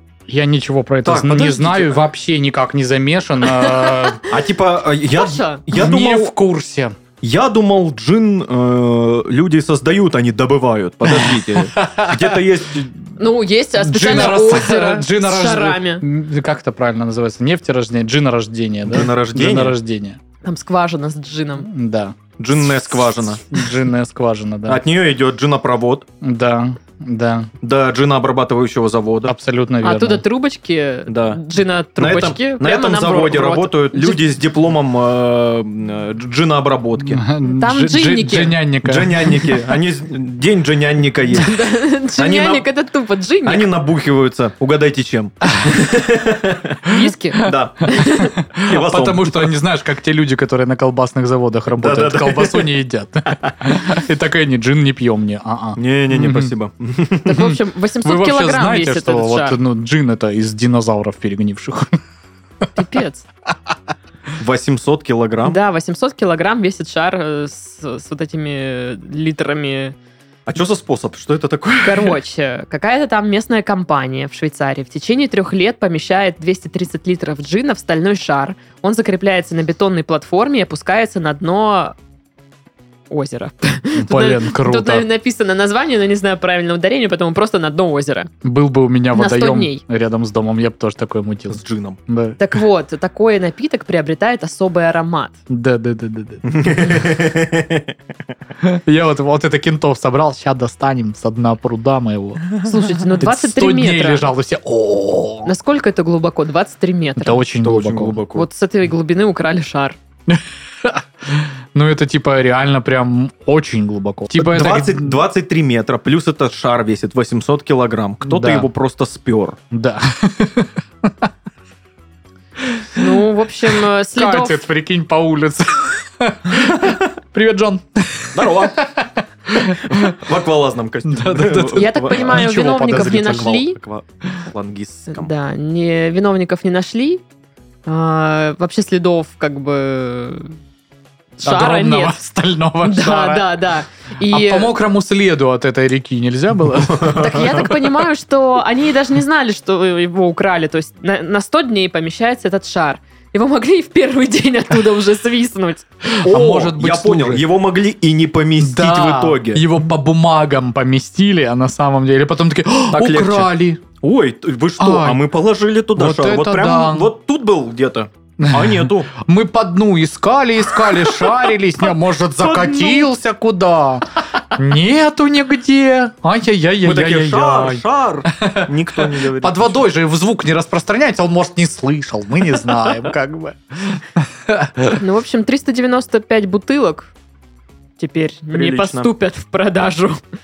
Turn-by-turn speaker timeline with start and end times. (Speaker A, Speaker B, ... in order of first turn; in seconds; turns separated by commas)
Speaker A: 0.3-4.2, Speaker B: 1.1-2.0, Speaker C: 3.6-4.2, Speaker B: 4.3-6.3, Speaker C: 5.1-5.7, Speaker A: 5.7-7.0, Speaker B: 7.2-13.1, Speaker A: 11.1-12.4, Speaker C: 13.2-16.0, Speaker A: 13.8-20.2, Speaker B: 18.9-19.8, Speaker C: 20.4-21.7, Speaker A: 21.7-22.2, Speaker B: 22.4-23.4, Speaker A: 23.5-24.8, Speaker B: 24.7-26.1, Speaker A: 26.2-27.5, Speaker B: 27.6-29.3, Speaker A: 29.3-30.2, Speaker C: 29.8-34.2, Speaker B: 31.1-31.4, Speaker B: 32.0-37.2, Speaker A: 37.0-39.5, Speaker C: 37.5-38.6, Speaker B: 38.8-41.5, Speaker C: 41.3-43.7, Speaker B: 42.2-42.6, Speaker B: 43.5-46.8, Speaker C: 46.9-48.4, Speaker A: 46.9-56.5, Speaker B: 47.4-47.9, Speaker B: 48.6-49.5, Speaker B: 51.8-52.7, Speaker B: 55.8-57.5, Speaker C: 57.3-59.6, Speaker A: 57.4-62.0, Speaker C: 62.8-63.3, Speaker B: 64.4-65.6, Speaker C: 65.4-70.0, Speaker B: 70.5-72.2, Speaker C: 71.8-82.0, Speaker C: 83.1-88.3, Speaker A: 84.0-85.1, Speaker A: 88.4-92.4, Speaker C: 89.1-89.8, Speaker B: 91.5-92.0, Speaker C: 92.4-95.4, Speaker A: 95.5-97.0, Speaker B: 96.5-97.9, Speaker A: 98.6-102.5, Speaker C: 102.6-104.3, Speaker A: 103.2-105.5, Speaker C: 105.5-107.5, Speaker A: 107.2-108.2, Speaker B: 107.6-108.5, Speaker C: 108.3-110.0, Speaker A: 110.3-115.2, Speaker B: 114.3-119.6, Speaker A: 118.2-118.7, Speaker A: 119.7-121.3, Speaker A: 122.6-123.2, Speaker C: 123.0-124.7, Speaker A: 124.2-130.2, Speaker B: 128.3-128.8, Speaker B: 129.8-135.3, Speaker A: 131.1-133.6, Speaker C: 131.8-133.8, Speaker C: 135.1-137.2, Speaker C: 137.9-140.6, Speaker C: 141.4-142.2, Speaker A: 141.4-143.5, Speaker C: 142.8-144.7, Speaker A: 144.3-147.5, Speaker B: 146.9-147.6, Speaker C: 147.1-155.9, Speaker A: 156.1-157.4, Speaker B: 156.2-159.7, Speaker A: 158.6-163.8, Speaker B: 162.9-169.1, Speaker A: 164.8-165.2, Speaker A: 165.9-167.1, Speaker A: 168.4-185.0, Speaker B: 172.4-173.1, Speaker B: 176.8-179.8, Speaker C: 184.9-187.1, Speaker C: 188.0-190.2, Speaker B: 188.5-189.1